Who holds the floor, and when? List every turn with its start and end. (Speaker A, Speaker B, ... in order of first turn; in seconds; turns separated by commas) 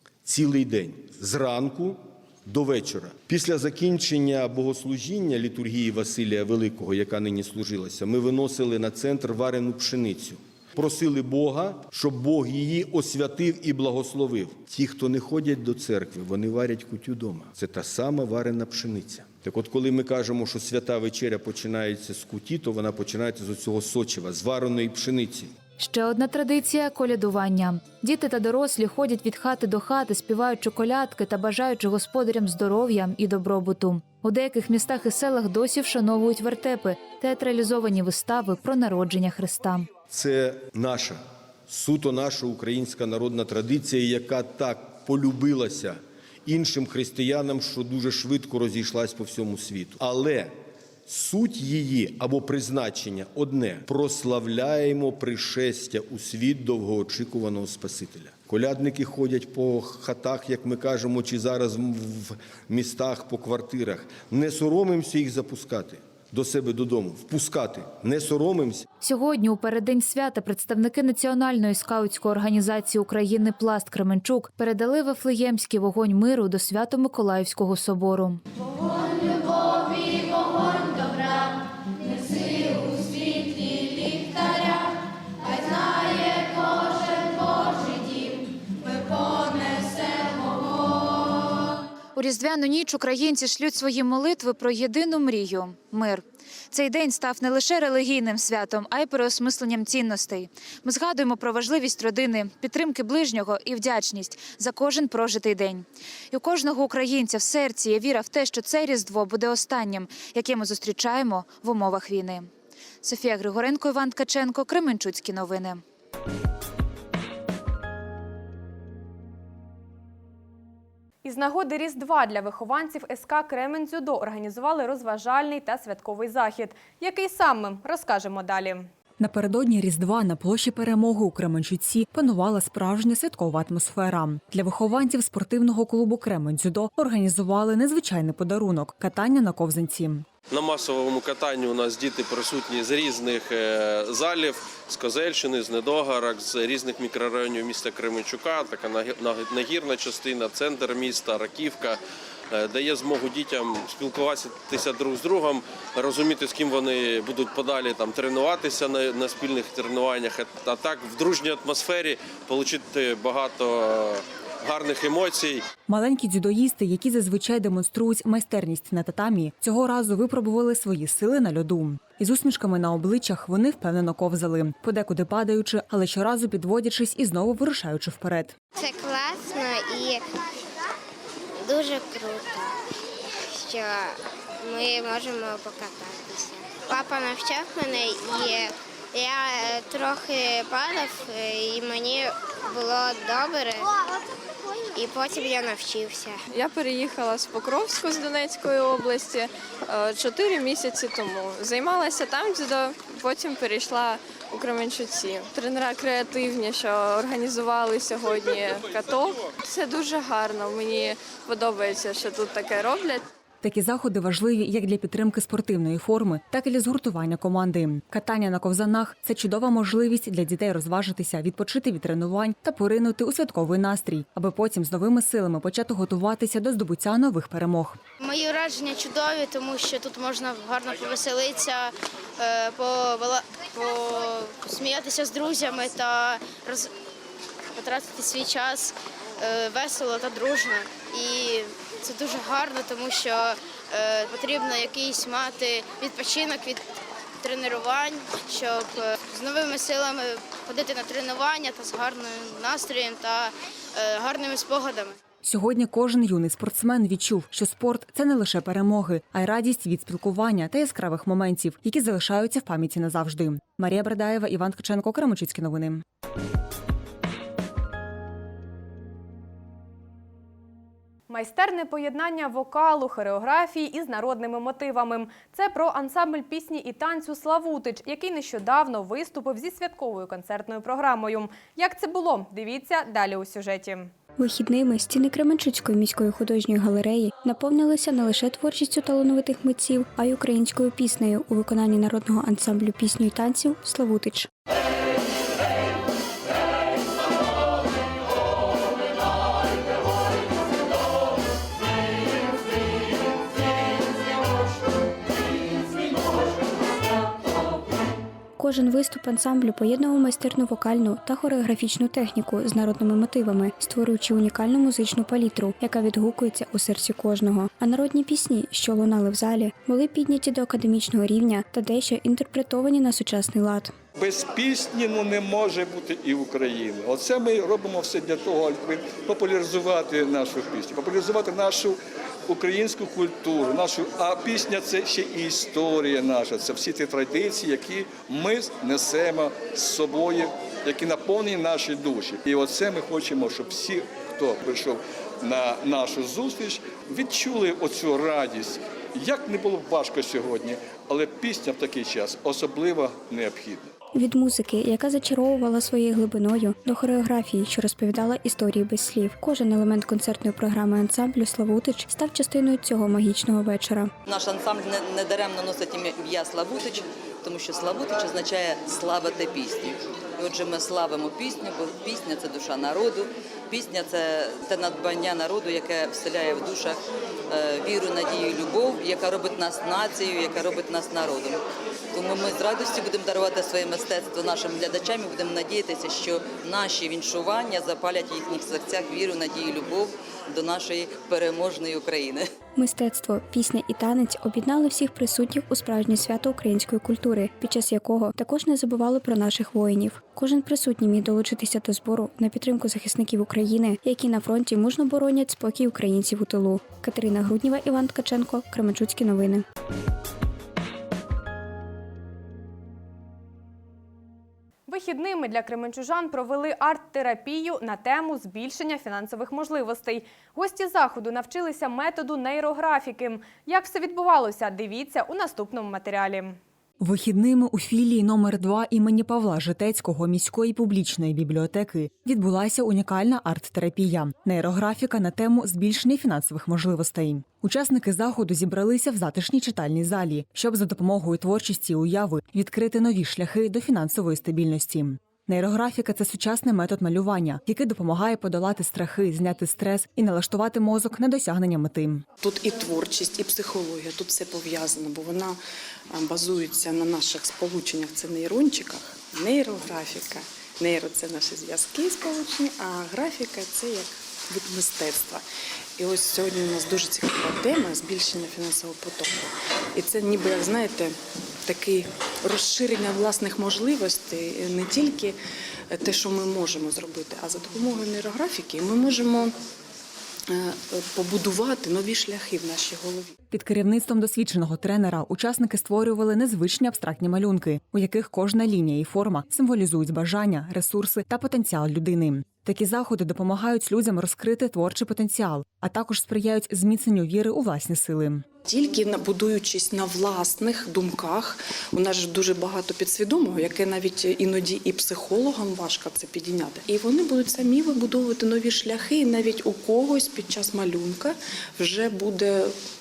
Speaker A: 0.2-25.5, Speaker B: 25.8-39.9, Speaker A: 40.1-50.5, Speaker A: 51.1-68.8, Speaker B: 69.0-78.4, Speaker B: 92.2-112.5, Speaker B: 113.0-115.8, Speaker C: 121.2-128.9, Speaker D: 129.2-140.3, Speaker E: 140.5-152.0, Speaker E: 152.5-165.6, Speaker D: 165.8-178.6, Speaker F: 178.9-180.2, Speaker F: 181.7-182.4, Speaker F: 183.7-183.9, Speaker F: 184.7-193.8, Speaker F: 194.9-196.3, Speaker G: 196.5-213.2, Speaker D: 213.6-228.0, Speaker F: 228.2-231.9, Speaker F: 232.4-236.9, Speaker F: 237.8-246.8, Speaker F: 247.4-255.1, Speaker D: 255.4-266.0, Speaker C: 271.3-284.1, Speaker H: 284.4-294.5, Speaker H: 308.6-323.9, Speaker I: 324.2-353.9, Speaker H: 354.1-364.1, Speaker J: 364.2-381.6, Speaker J: 382.1-392.4, Speaker H: 392.8-409.6, Speaker C: 414.9-426.6, Speaker D: 427.0-452.2, Speaker K: 452.4-455.6, Speaker K: 456.1-465.4, Speaker K: 466.0-475.4, Speaker K: 475.9-479.5, Speaker K: 480.5-483.3, Speaker D: 483.5-498.4, Speaker K: 498.6-512.7